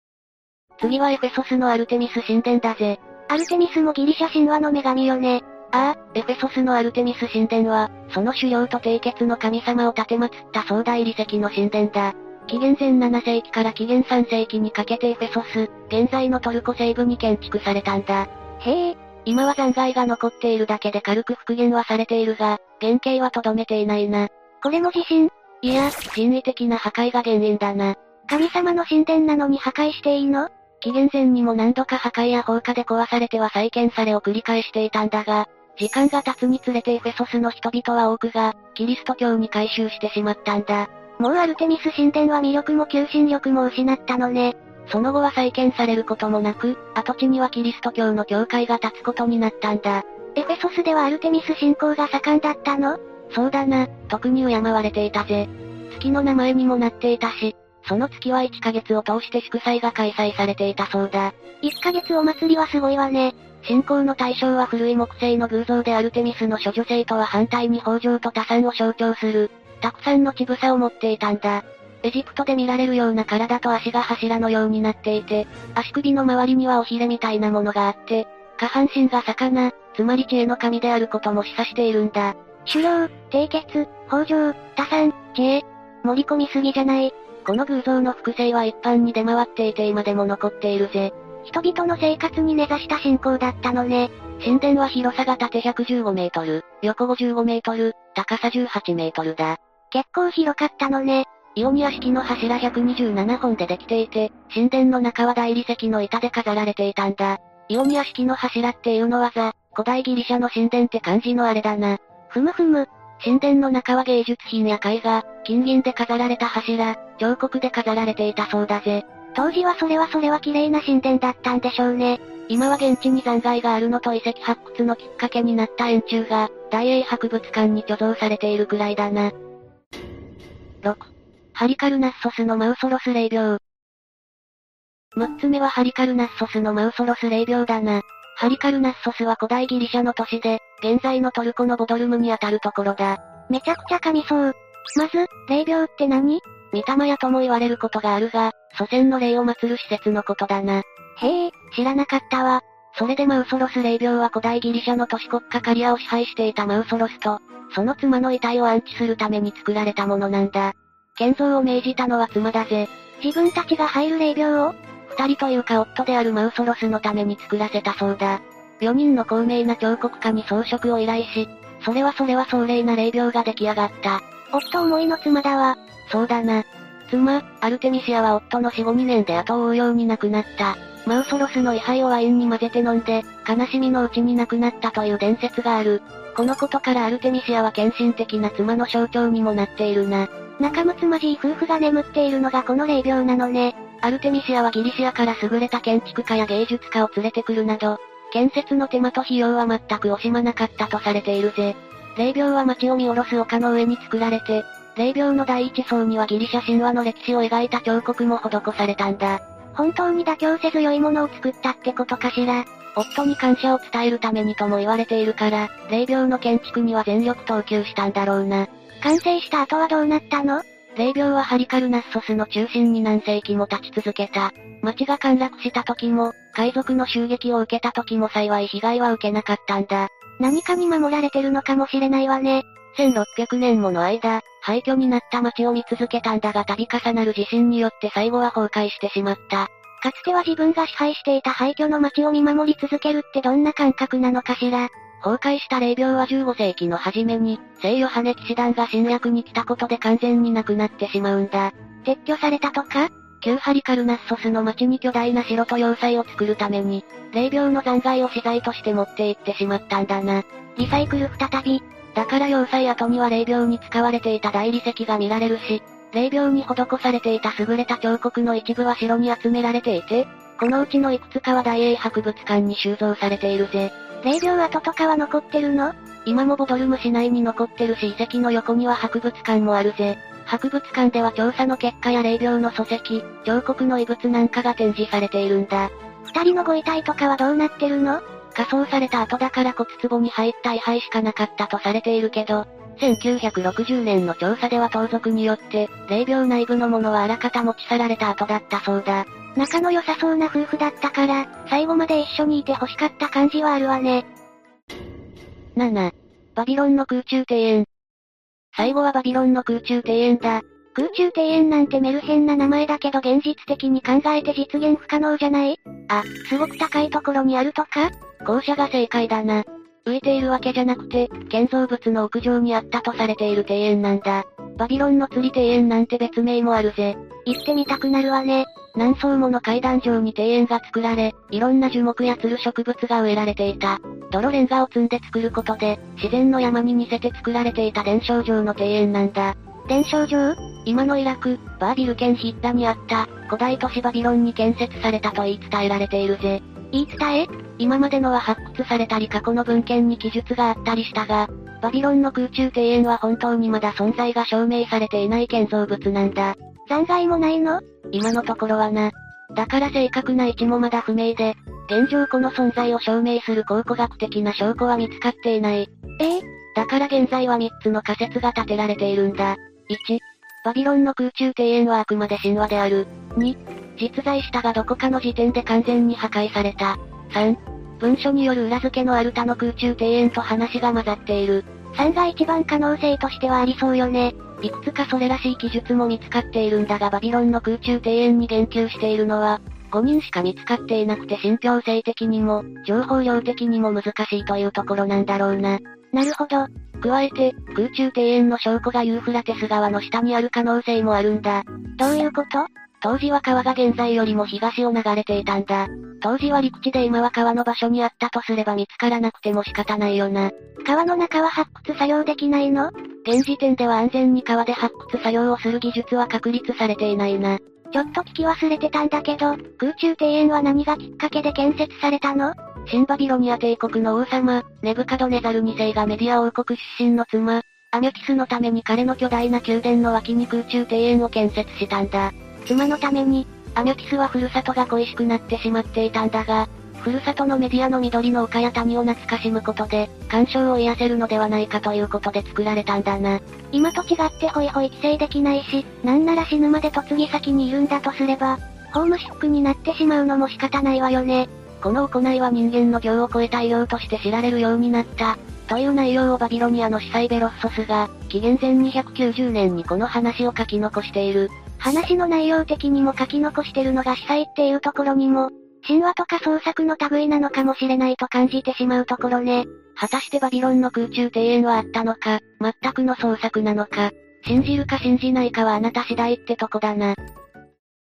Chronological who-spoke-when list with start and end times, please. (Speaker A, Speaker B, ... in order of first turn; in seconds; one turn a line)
Speaker A: 0.8-129.3
Speaker A: 130.8-133.6
Speaker A: 135.2-304.2
Speaker A: 305.8-307.9
Speaker A: 308.7-477.1